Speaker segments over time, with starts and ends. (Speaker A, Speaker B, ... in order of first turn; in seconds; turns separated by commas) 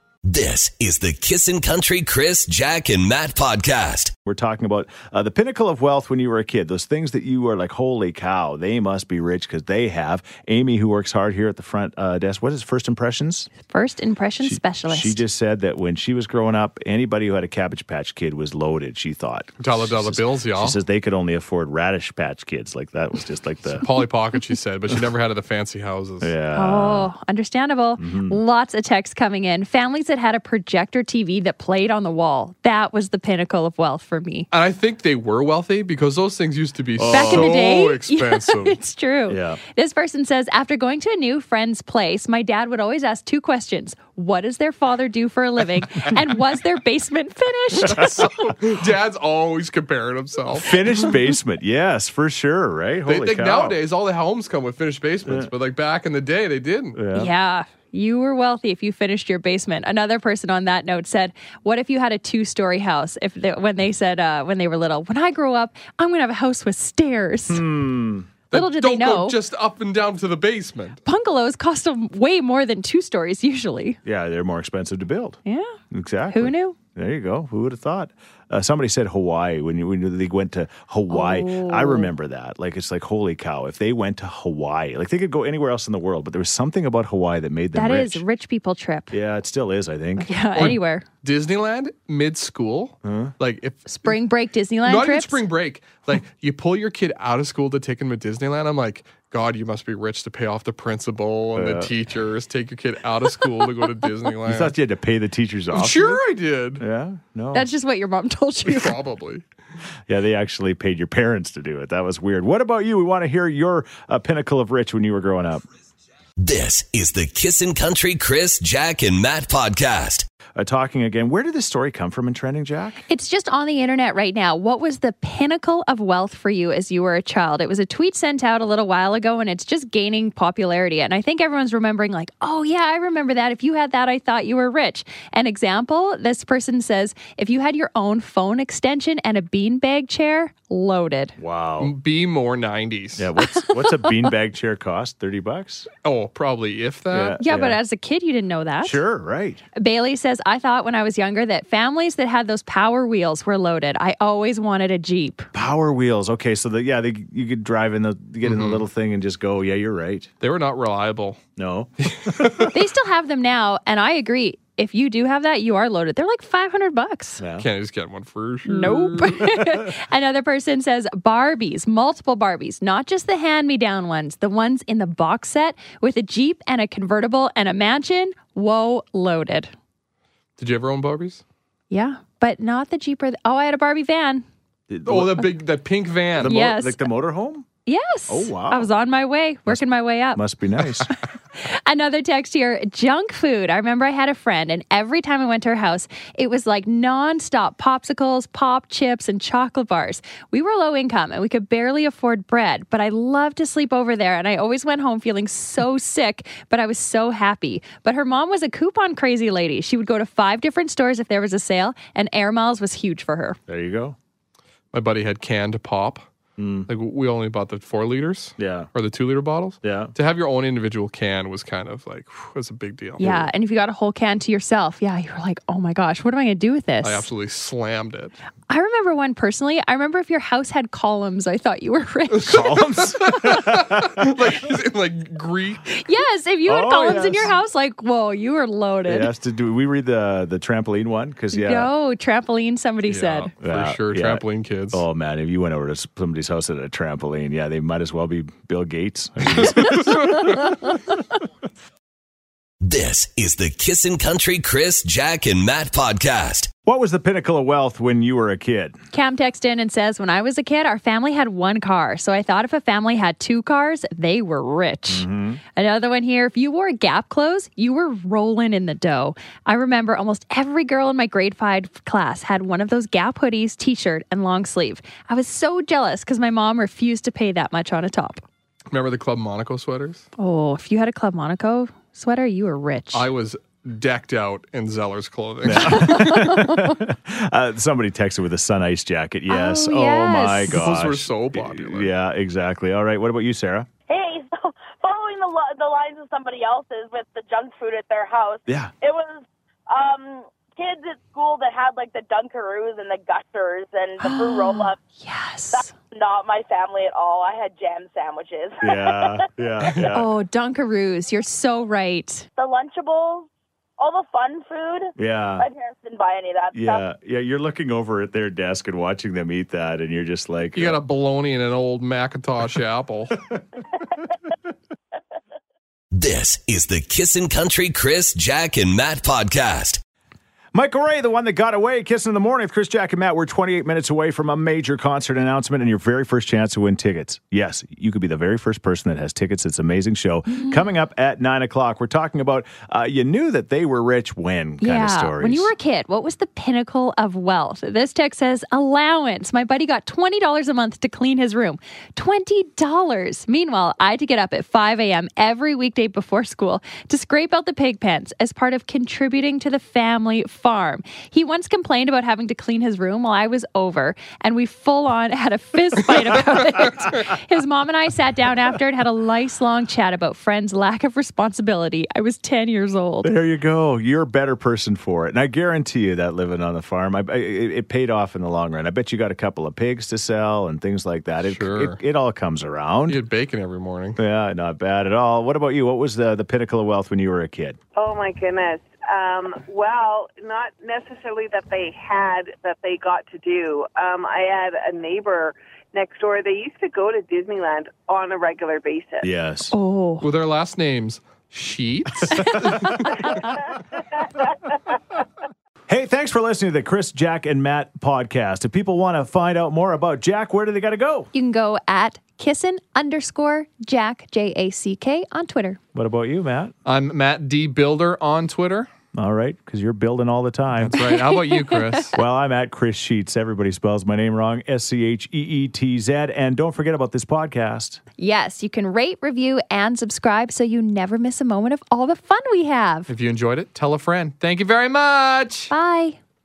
Speaker A: 0.2-4.1, Speaker B: 4.2-13.5, Speaker C: 13.7-15.2, Speaker B: 14.4-23.9, Speaker D: 19.6-20.8, Speaker D: 23.8-26.3, Speaker B: 26.2-27.1, Speaker C: 26.5-34.5, Speaker B: 28.0-28.4, Speaker D: 34.5-38.8, Speaker B: 37.0-37.6, Speaker C: 37.1-48.5, Speaker B: 39.3-39.6, Speaker D: 47.8-50.8, Speaker B: 50.5-53.8, Speaker D: 53.0-57.0, Speaker B: 56.9-57.3, Speaker C: 57.1-67.7, Speaker B: 67.5-68.3, Speaker C: 68.5-69.3, Speaker D: 68.5-71.0, Speaker C: 71.0-74.0, Speaker B: 74.0-75.4, Speaker C: 75.5-75.7, Speaker B: 75.9-88.2, Speaker C: 76.3-76.8, Speaker C: 81.1-82.1, Speaker C: 87.7-89.2, Speaker B: 89.1-90.7, Speaker C: 90.2-91.0, Speaker D: 90.5-94.2, Speaker B: 93.0-93.3, Speaker C: 93.9-95.4, Speaker D: 94.8-104.8, Speaker B: 101.5-101.9, Speaker B: 104.4-106.2, Speaker D: 105.7-106.8, Speaker B: 106.8-107.7, Speaker C: 107.5-109.0, Speaker D: 108.6-109.4, Speaker B: 110.1-115.6, Speaker A: 116.4-120.2, Speaker B: 120.5-123.0, Speaker C: 123.1-141.4, Speaker B: 141.4-141.9, Speaker D: 141.8-143.3, Speaker B: 143.2-145.9, Speaker C: 143.6-144.2, Speaker D: 146.0-147.4, Speaker B: 147.1-147.8, Speaker C: 147.4-149.0, Speaker B: 148.8-149.6, Speaker C: 149.8-155.5, Speaker B: 155.5-160.3, Speaker D: 158.4-158.8, Speaker D: 160.4-161.4, Speaker B: 161.6-162.7, Speaker D: 162.0-162.7, Speaker C: 162.7-167.4, Speaker B: 167.4-167.7, Speaker D: 167.6-169.4, Speaker C: 168.6-179.7, Speaker B: 169.4-169.8, Speaker D: 180.6-181.4, Speaker C: 181.9-184.4, Speaker B: 184.9-185.5, Speaker D: 185.0-186.6, Speaker B: 186.4-187.7, Speaker C: 186.4-187.0, Speaker C: 187.8-190.4, Speaker B: 188.3-188.9, Speaker B: 189.7-191.1, Speaker C: 191.1-213.6, Speaker B: 213.7-214.2, Speaker D: 214.9-216.3, Speaker B: 216.6-216.9, Speaker D: 216.9-223.2, Speaker B: 218.6-218.9, Speaker B: 219.8-220.1, Speaker B: 223.2-223.5, Speaker C: 223.2-227.3, Speaker D: 227.0-228.4, Speaker C: 228.7-232.7, Speaker B: 232.4-234.3, Speaker D: 232.5-235.8, Speaker C: 235.9-239.3, Speaker B: 236.7-237.5, Speaker B: 239.1-241.9, Speaker C: 241.5-243.5, Speaker D: 243.1-245.0, Speaker B: 243.6-250.4, Speaker D: 249.5-250.7, Speaker C: 249.9-251.0, Speaker A: 252.8-256.7, Speaker B: 256.9-258.9, Speaker C: 259.1-278.4, Speaker B: 265.1-265.6, Speaker D: 278.9-280.3, Speaker C: 280.4-283.3, Speaker D: 283.1-286.4, Speaker B: 285.6-293.9, Speaker C: 285.9-286.9, Speaker C: 289.5-290.9, Speaker D: 290.7-292.1, Speaker E: 294.1-305.0, Speaker B: 298.6-298.9, Speaker C: 304.2-305.9, Speaker E: 305.7-309.4, Speaker B: 308.8-310.3, Speaker C: 310.1-312.4, Speaker E: 312.6-317.0, Speaker B: 315.2-315.6, Speaker B: 316.7-321.0, Speaker D: 320.7-323.4, Speaker A: 326.1-330.0, Speaker B: 330.7-345.7, Speaker C: 340.5-340.8, Speaker C: 344.8-373.3, Speaker B: 373.2-383.2, Speaker D: 381.4-382.0, Speaker D: 383.1-384.2, Speaker B: 384.2-387.8, Speaker F: 387.9-399.3, Speaker B: 399.2-399.7, Speaker C: 399.7-400.2, Speaker D: 400.2-403.4, Speaker B: 402.6-403.3, Speaker B: 405.9-411.3, Speaker C: 411.3-415.8, Speaker B: 415.9-416.7, Speaker D: 416.8-418.9, Speaker B: 419.1-421.0, Speaker D: 420.9-422.1, Speaker C: 420.9-422.0, Speaker B: 422.1-428.0, Speaker C: 428.2-433.1, Speaker D: 433.1-435.7, Speaker C: 435.7-436.2